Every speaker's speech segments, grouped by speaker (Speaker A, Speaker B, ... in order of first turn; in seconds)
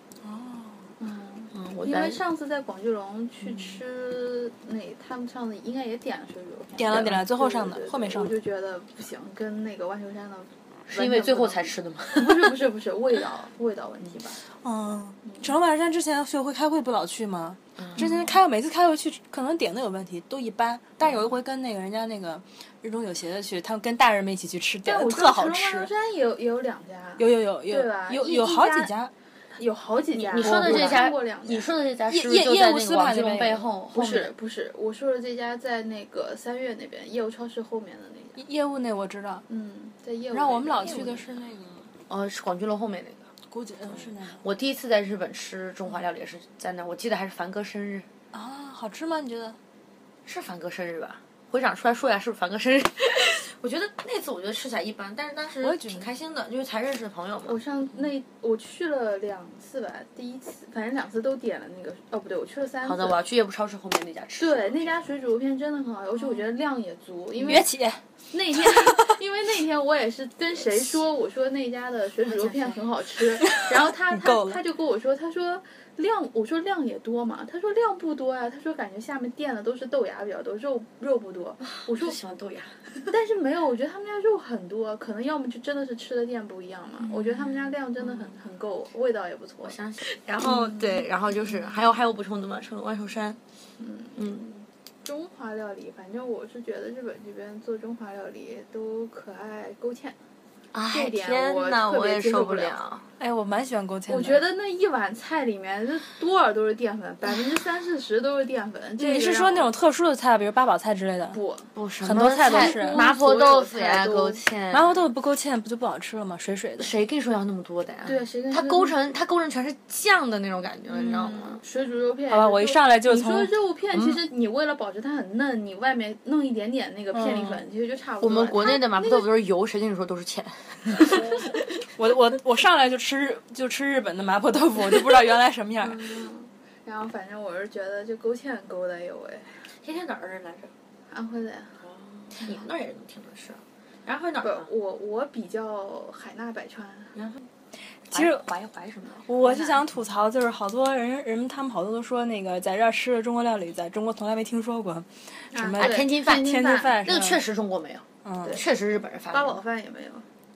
Speaker A: 0.2-0.9, 3.5-3.7, 6.8-8.3, 14.6-25.9, 27.2-29.1, 30.4-31.1, 32.1-33.7, 38.4-39.5, 40.3-41.9, 43.5-44.4, 48.3-49.6, 55.6-56.1, 67.5-68.0, 73.4-74.6, 103.2-104.4, 109.0-111.4, 112.0-113.0, 114.7-116.9, 122.3-123.5, 127.1-127.6, 131.9-136.2, 148.1-148.4, 149.3-157.4, 158.2-158.6
Speaker B: 1.0-14.4, 15.2-15.5, 18.0-18.2, 24.9-28.9, 29.6-31.7, 33.9-38.4, 39.5-41.2, 57.5-63.2, 64.4-67.7, 68.3-82.2, 83.1-89.8, 90.4-91.0, 93.8-100.2, 100.9-102.8, 104.1-109.7, 111.3-111.7, 112.4-114.4, 118.1-119.0, 120.9-129.2, 135.8-139.6, 141.1-141.8, 144.4-147.1, 149.4-149.8, 155.5-157.0, 159.3-160.3
Speaker C: 1.5-2.2, 10.9-12.6, 17.8-18.1, 21.0-21.3, 30.1-34.3, 40.8-41.2, 42.1-43.3, 43.9-48.1, 50.3-57.6, 62.8-65.0, 72.2-72.8, 81.6-83.1, 89.6-93.4, 94.2-94.5, 100.7-103.1, 111.8-115.0, 116.8-121.6, 123.9-124.2, 128.2-131.5, 139.8-140.7, 141.8-144.7, 147.2-147.4, 148.1-149.3, 155.8-159.6